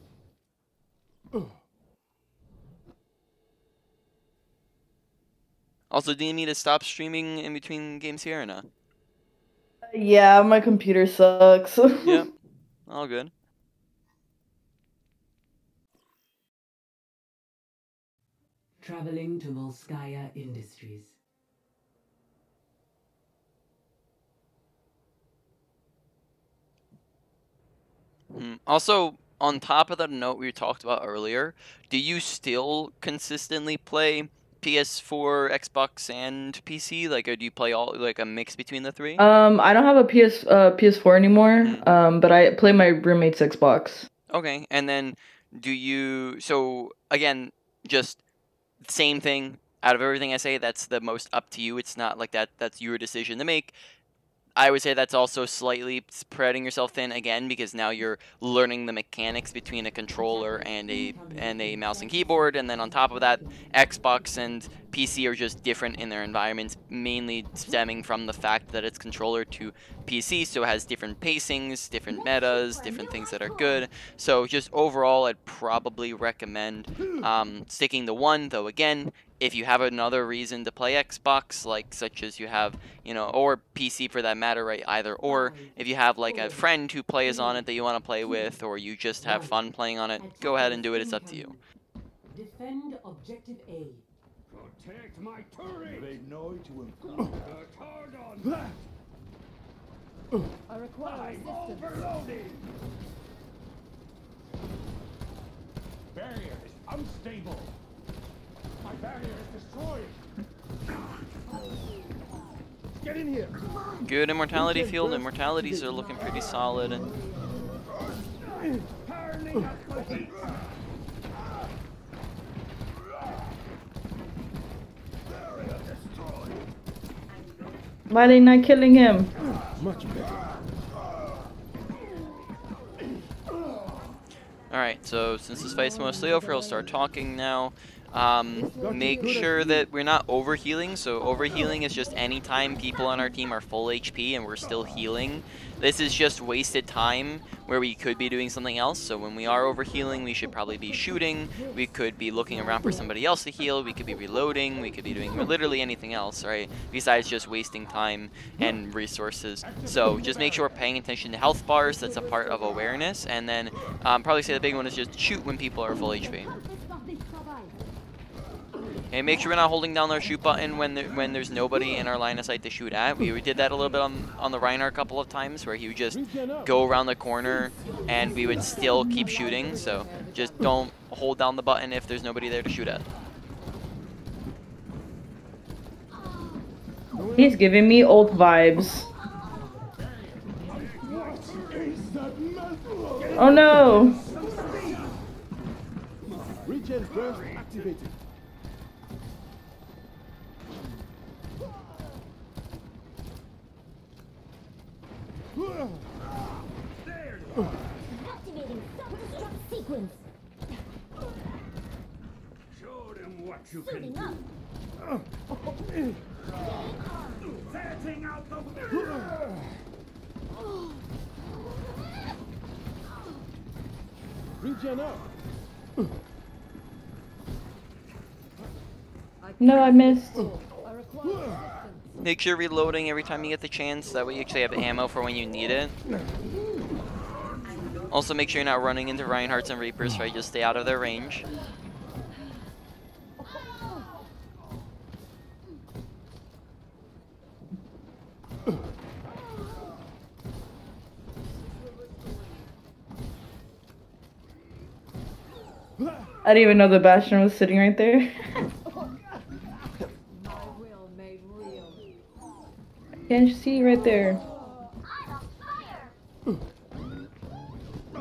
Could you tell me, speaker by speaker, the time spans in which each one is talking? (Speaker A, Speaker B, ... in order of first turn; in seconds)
Speaker A: 5.9-8.7, 12.0-12.3, 12.9-13.3, 28.3-39.2, 44.3-48.2, 48.8-53.7, 54.6-91.5, 114.0-117.0, 134.7-166.5, 169.1-183.0, 232.2-235.9, 238.1-241.4
Speaker B: 9.9-12.3, 39.2-44.1, 128.1-129.3, 187.3-189.1, 193.3-194.2, 229.6-230.4, 256.4-258.3, 263.3-264.4
Speaker C: 18.8-21.2, 60.1-64.8, 85.2-86.7, 87.2-87.7, 88.2-88.5, 89.2-89.6, 90.2-91.6, 92.3-94.0
Speaker D: 94.5-98.7, 101.0-102.6, 106.1-107.8, 108.8-110.2, 113.0-113.5, 118.5-120.5, 125.5-126.6, 160.1-160.7, 190.0-191.8, 193.2-195.1, 196.5-197.9, 206.9-208.0, 212.7-214.3, 217.5-219.2
Speaker E: 100.7-102.3, 116.3-117.3, 129.9-130.4, 166.4-167.7, 178.4-180.8, 208.1-210.2, 213.8-214.4, 216.6-217.5, 229.4-232.1, 251.8-252.7, 260.3-262.1, 264.0-266.1
Speaker F: 113.2-113.5, 114.5-115.8, 129.8-130.4, 138.7-139.8, 176.1-176.8, 187.1-187.6, 191.0-194.1, 196.6-198.2, 224.6-225.2